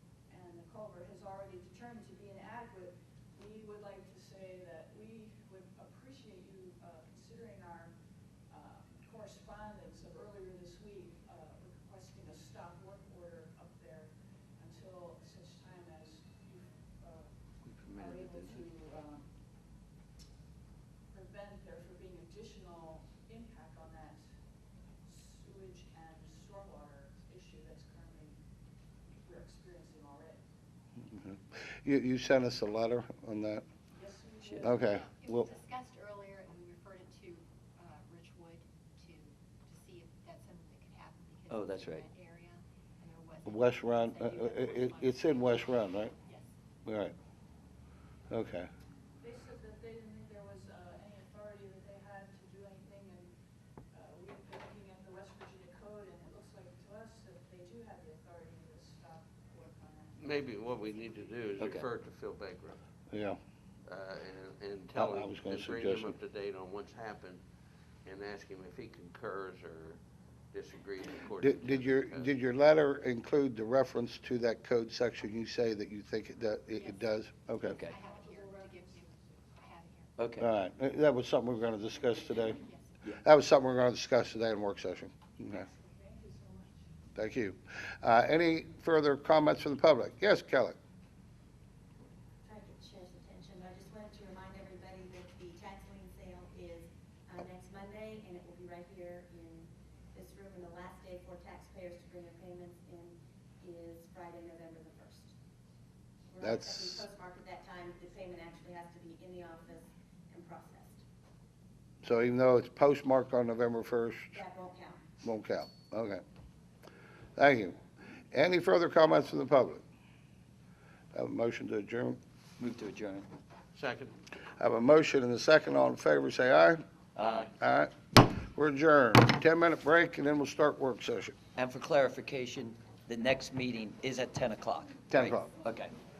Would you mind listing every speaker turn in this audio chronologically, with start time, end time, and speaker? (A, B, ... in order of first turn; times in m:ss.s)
0:00.3-0:07.9 A
0:08.5-0:17.3 A
0:17.7-0:18.7 B
0:17.8-0:19.3 A
0:21.1-0:24.2 A
0:25.0-0:28.4 A
0:29.2-0:30.4 A
0:31.0-0:33.6 C
0:33.9-0:34.9 A
0:34.5-0:35.5 C
0:35.0-0:46.5 D
0:41.5-0:42.1 E
0:43.4-0:46.1 C
0:46.8-0:47.2 C
0:48.3-0:48.7 C
0:49.2-0:53.3 A
0:53.9-1:01.3 A
1:00.2-1:02.8 B
1:01.6-1:01.9 E
1:03.1-1:03.4 C
1:03.9-1:07.4 B
1:05.0-1:06.2 C
1:08.0-1:10.0 B
1:10.5-1:12.3 B
1:11.4-1:17.8 C
1:16.8-1:17.0 D
1:17.6-1:18.0 E
1:17.8-1:20.1 D
1:17.8-1:19.4 A
1:20.2-1:20.5 E
1:20.4-1:22.6 C
1:22.2-1:23.0 D
1:23.2-1:25.7 C
1:25.4-1:26.9 A
1:27.2-1:30.8 C
1:32.4-1:45.3 F
1:46.3-1:51.0 F
1:46.4-1:47.0 C
1:52.0-1:54.4 C
1:54.3-1:55.0 F
1:55.2-1:56.2 C
1:57.4-1:57.8 C
1:58.3-1:59.8 C
2:01.1-2:02.2 C
2:02.6-2:03.3 E
2:03.8-2:04.2 B
2:04.6-2:06.8 C
2:07.2-2:07.5 E
2:07.5-2:11.4 C
2:11.6-2:16.0 E
2:15.1-2:15.5 C